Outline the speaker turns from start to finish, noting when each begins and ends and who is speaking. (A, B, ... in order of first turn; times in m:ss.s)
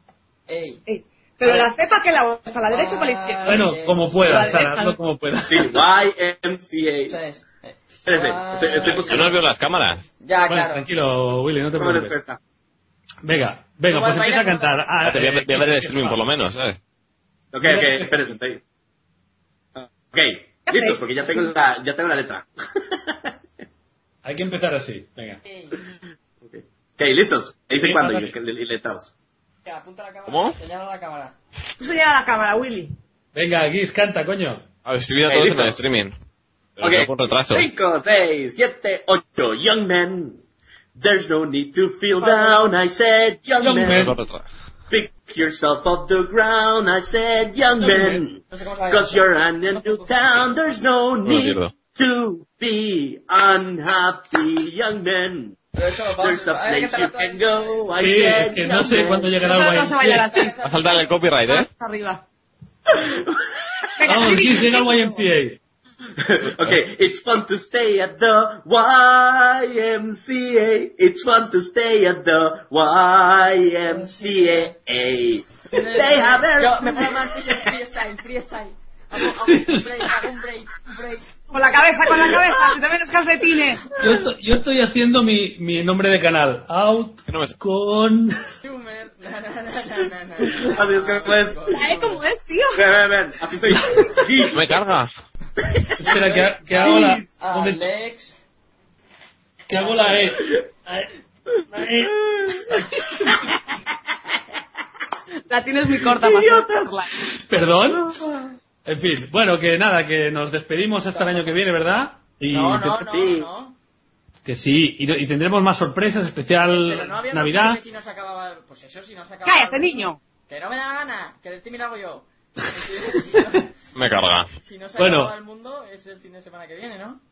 0:00.5-0:00.8 A
0:00.9-0:05.0 B
0:02.7-0:04.6 A
0:03.4-0:05.8 C
0:05.5-0:07.2 D
0:07.1-0:09.4 A
0:08.1-0:09.4 D
0:08.8-0:10.0 E
0:10.2-0:10.9 A
0:10.5-0:12.2 C
0:11.7-0:12.4 D
0:13.2-0:16.2 C
0:13.9-0:14.8 A
0:15.0-0:16.8 E
0:17.5-0:18.6 D
0:17.6-0:18.2 C
0:19.8-0:23.3 D
0:20.7-0:21.5 B
0:24.2-0:25.4 C
0:25.4-0:25.8 A
0:26.4-0:29.1 D
0:27.8-0:28.3 C
0:29.6-0:31.4 A
0:30.3-0:30.6 E
0:31.8-0:32.9 B
0:33.3-0:34.6 C
0:34.8-0:36.1 E
0:35.3-0:35.8 D
0:36.8-0:37.7 E
0:36.8-0:40.4 D
0:40.9-0:44.1 D
0:42.1-0:42.7 B
0:43.6-0:44.1 C
0:43.9-0:44.5 E
0:44.9-0:55.6 D
0:47.8-0:49.3 A
0:49.7-0:50.0 B
0:51.2-0:51.7 E
0:55.7-0:57.9 A
0:56.2-0:59.3 D
0:58.0-1:00.3 C
0:58.6-1:00.6 B
1:00.2-1:01.2 A
1:00.6-1:01.7 E
1:01.4-1:02.2 B
1:02.9-1:03.4 D
1:04.0-1:05.2 B
1:04.0-1:05.6 C
1:06.2-1:17.2 D
1:15.7-1:21.2 A
1:19.4-1:20.1 C
1:21.5-1:24.0 B
1:24.0-1:28.4 C
1:27.3-1:27.6 E
1:28.6-1:32.2 A
1:30.6-1:31.8 D
1:31.7-1:32.8 B
1:32.7-1:34.8 D
1:34.5-1:35.1 E
1:36.0-1:37.8 C
1:36.0-1:38.4 A
1:39.7-1:41.1 C
1:39.7-1:40.3 A
1:41.7-1:43.4 C
1:45.5-1:47.2 B
1:46.2-1:46.9 D
1:47.3-1:48.2 C
1:48.1-1:48.4 D
1:48.8-1:53.0 C
1:51.1-1:51.6 A
1:52.5-1:53.8 A
1:53.0-1:53.5 D
1:54.4-1:57.8 C
1:56.7-2:03.7 A
1:59.4-2:00.2 B
2:03.9-2:04.5 E
2:04.6-2:07.2 A
2:05.0-2:05.3 C